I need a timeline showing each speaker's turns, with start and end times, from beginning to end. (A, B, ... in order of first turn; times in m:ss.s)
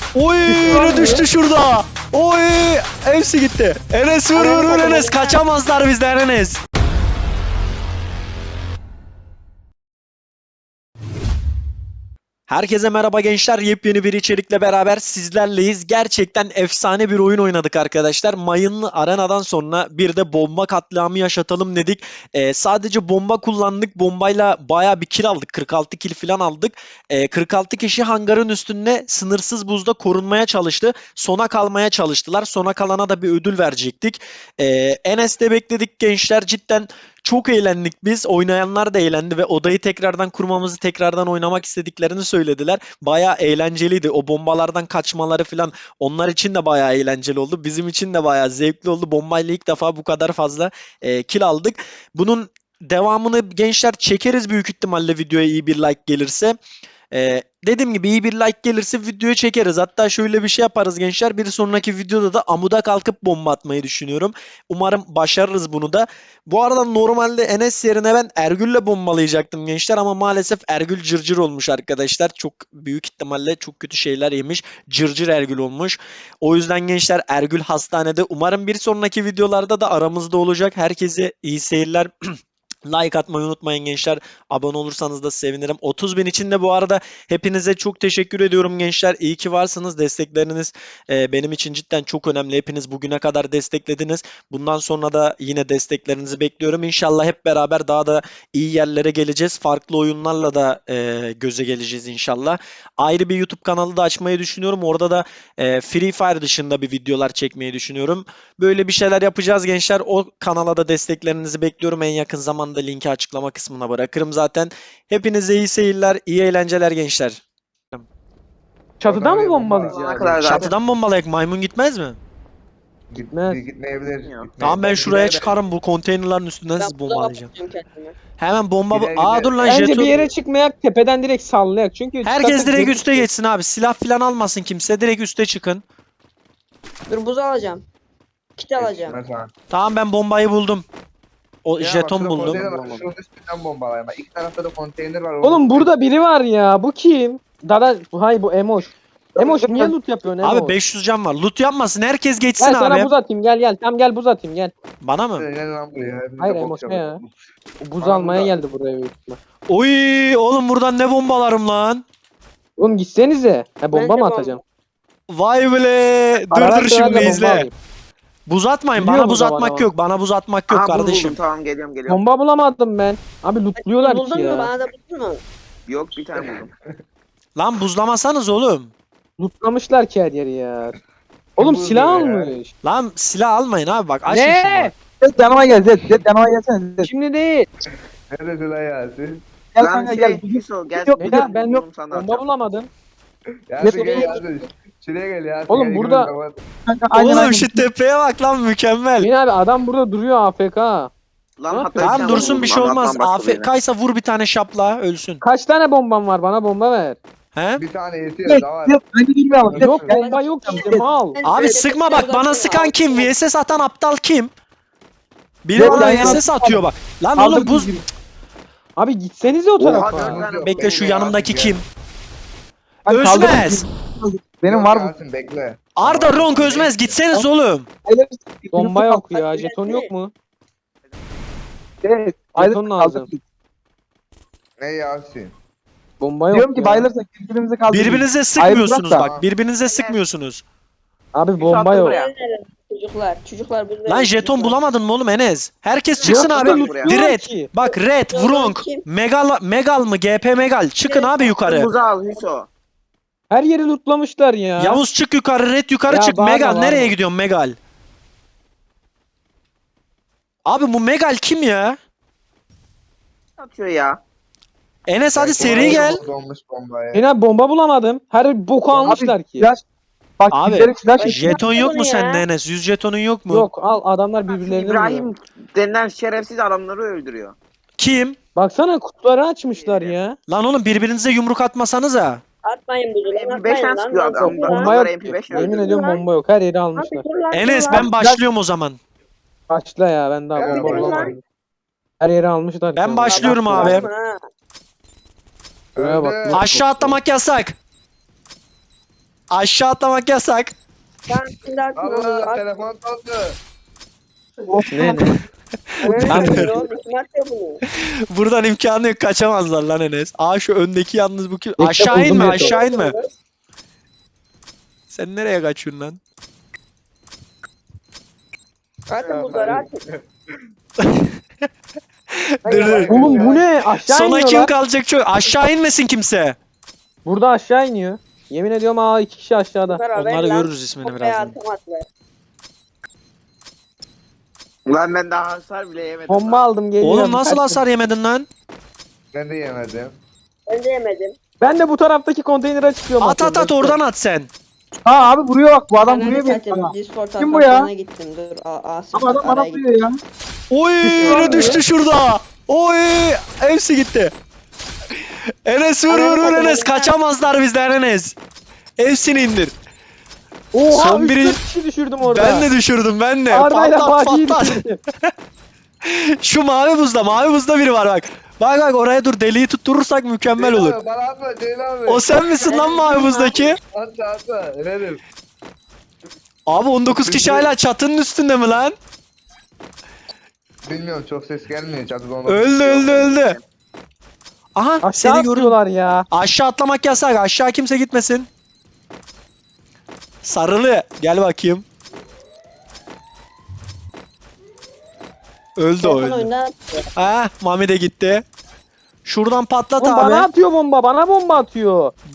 0:00.1-0:06.6 A
0:00.6-0:01.2 B
0:00.7-0:01.2 C
0:04.3-0:05.4 D
0:12.5-0:56.6 A
0:57.1-1:22.1 A
1:22.9-1:57.4 A
1:59.0-2:00.6 C
1:59.0-2:00.6 E
1:59.9-2:00.8 F
2:00.4-2:02.2 A
2:03.1-2:05.6 E
2:03.3-2:03.6 C
2:04.2-2:04.5 F
2:04.6-2:07.5 A
2:06.8-2:08.2 D
2:08.3-2:10.3 A
2:08.9-2:09.8 E
2:09.7-2:13.3 C
2:12.2-2:15.8 A
2:17.1-2:17.8 D
2:18.6-2:19.2 D
2:18.8-2:19.5 E
2:19.7-2:20.8 A
2:21.6-2:23.0 A
2:21.8-2:25.9 E
2:25.4-2:30.8 C
2:29.4-2:29.9 B
2:30.4-2:33.1 A
2:32.6-2:34.7 C
2:35.0-2:35.4 A
2:35.4-2:37.4 E
2:36.4-2:37.2 C
2:37.8-2:39.4 C
2:38.0-2:38.5 E
2:39.7-2:42.0 A
2:42.8-2:44.6 C
2:43.9-2:44.6 D
2:45.3-2:47.7 A
2:46.5-2:47.8 C
2:48.5-2:51.4 A
2:49.0-2:49.9 C
2:50.7-2:52.2 F
2:52.1-2:54.7 C
2:53.8-2:55.4 D
2:55.9-2:56.7 F
2:57.6-2:58.9 A
2:59.4-3:01.0 C
3:01.6-3:02.7 C
3:01.6-3:02.5 E
3:02.8-3:04.9 A
3:04.3-3:04.9 C
3:05.2-3:07.1 B
3:07.0-3:07.7 C
3:08.3-3:09.4 E
3:09.8-3:11.5 B
3:09.8-3:12.4 F
3:11.2-3:12.9 C
3:13.7-3:16.5 E
3:13.8-3:14.4 B
3:15.7-3:16.3 C
3:16.8-3:17.9 B
3:17.1-3:19.3 A
3:19.2-3:21.1 C
3:21.6-3:23.7 F
3:21.7-3:22.7 C
3:22.0-3:25.4 A
3:25.4-3:27.2 C
3:27.6-3:27.8 A
3:27.8-3:29.0 E
3:28.4-3:31.1 B
3:29.7-3:30.1 E
3:29.8-3:31.4 C
3:30.1-3:33.3 D
3:31.4-3:34.5 A
3:35.6-3:38.0 A
3:35.7-3:38.0 B
3:39.0-3:40.4 C
3:39.8-3:41.4 F
3:39.8-3:41.8 E
3:40.6-3:41.8 A
3:43.1-3:45.1 B
3:43.1-3:43.9 A
3:44.7-3:47.2 E
3:46.0-3:47.9 A
3:48.1-3:49.3 B
3:48.7-3:50.3 C
3:49.3-3:50.1 D
3:52.0-3:53.4 B
3:52.6-3:53.3 C
3:54.8-3:55.5 E
3:56.2-3:57.1 C
3:56.5-3:59.3 B
3:57.9-4:00.6 A
3:59.2-3:59.4 E
3:59.8-4:00.2 F
4:01.3-4:02.2 C
4:01.6-4:02.3 F
4:01.9-4:04.8 D
4:04.1-4:11.9 A
4:06.2-4:07.2 F
4:06.2-4:07.7 C
4:07.8-4:09.0 D
4:11.0-4:12.7 F
4:13.5-4:15.0 C
4:14.8-4:17.8 A
4:16.1-4:17.1 C
4:20.6-4:22.0 A
4:23.6-4:24.2 F
4:25.1-4:26.2 A
4:25.3-4:27.2 E
4:27.1-4:29.7 C
4:29.0-4:29.8 B
4:30.4-4:31.5 B
4:30.5-4:33.7 A
4:31.2-4:32.4 D
4:33.5-4:35.3 C
4:34.5-4:37.6 F
4:38.0-4:38.4 A
4:38.6-4:40.4 C
4:39.7-4:40.2 F
4:40.5-4:42.4 A
4:42.6-4:45.0 D
4:43.3-4:45.9 F
4:44.3-4:47.2 C
4:45.5-4:46.2 D
4:47.0-4:48.1 D
4:47.5-4:49.0 A
4:47.9-4:48.4 B
4:49.7-4:51.4 C
4:50.6-4:51.4 E
4:50.6-4:51.3 D
4:52.2-4:54.1 C
4:53.0-4:54.1 A
4:53.2-4:54.4 D
4:55.9-4:56.7 E
4:56.0-4:57.2 C
4:56.5-4:57.8 A
4:59.5-5:00.7 A
5:01.3-5:02.7 D
5:02.0-5:03.6 E
5:04.7-5:05.3 B
5:04.9-5:05.3 C
5:06.0-5:06.7 A
5:06.0-5:07.8 D
5:06.2-5:06.8 C
5:07.9-5:13.2 A
5:11.8-5:12.8 C
5:12.0-5:12.4 B
5:12.5-5:13.3 D
5:15.1-5:16.2 A
5:19.1-5:20.0 D
5:19.2-5:19.9 E
5:21.0-5:21.3 A
5:22.3-5:23.0 A
5:22.6-5:23.6 D
5:22.7-5:23.6 E
5:23.1-5:24.7 C
5:24.0-5:26.6 A
5:27.2-5:30.0 C
5:29.9-5:32.1 D
5:30.1-5:31.6 A
5:34.9-5:36.6 F
5:36.3-5:37.8 C
5:37.0-5:38.5 A
5:39.3-5:40.2 E
5:40.7-5:41.4 D
5:41.6-5:44.0 C
5:43.2-5:44.5 A
5:45.1-5:47.9 B
5:46.0-5:49.8 D
5:49.1-5:50.2 B
5:50.7-5:54.3 A
5:51.1-5:51.8 C
5:51.2-5:51.7 D
5:51.4-5:51.8 B
5:55.6-5:58.4 A
5:56.1-5:57.1 D
5:59.0-5:59.7 A
6:00.7-6:02.7 C
6:00.9-6:01.6 A
6:02.2-6:05.3 A
6:03.5-6:05.0 C
6:06.0-6:11.0 A
6:10.6-6:12.3 E
6:12.1-6:13.8 A
6:12.6-6:13.6 D
6:13.8-6:15.2 E
6:16.7-6:18.9 A
6:17.1-6:17.7 E
6:20.9-6:22.8 E
6:22.5-6:23.6 A
6:22.8-6:23.6 F
6:24.8-6:25.8 A
6:25.0-6:26.2 C
6:26.3-6:28.5 A
6:30.4-6:31.8 A
6:35.8-6:36.5 A
6:36.0-6:37.0 D
6:37.2-6:38.4 A
6:39.2-6:40.5 A
6:40.0-6:42.1 C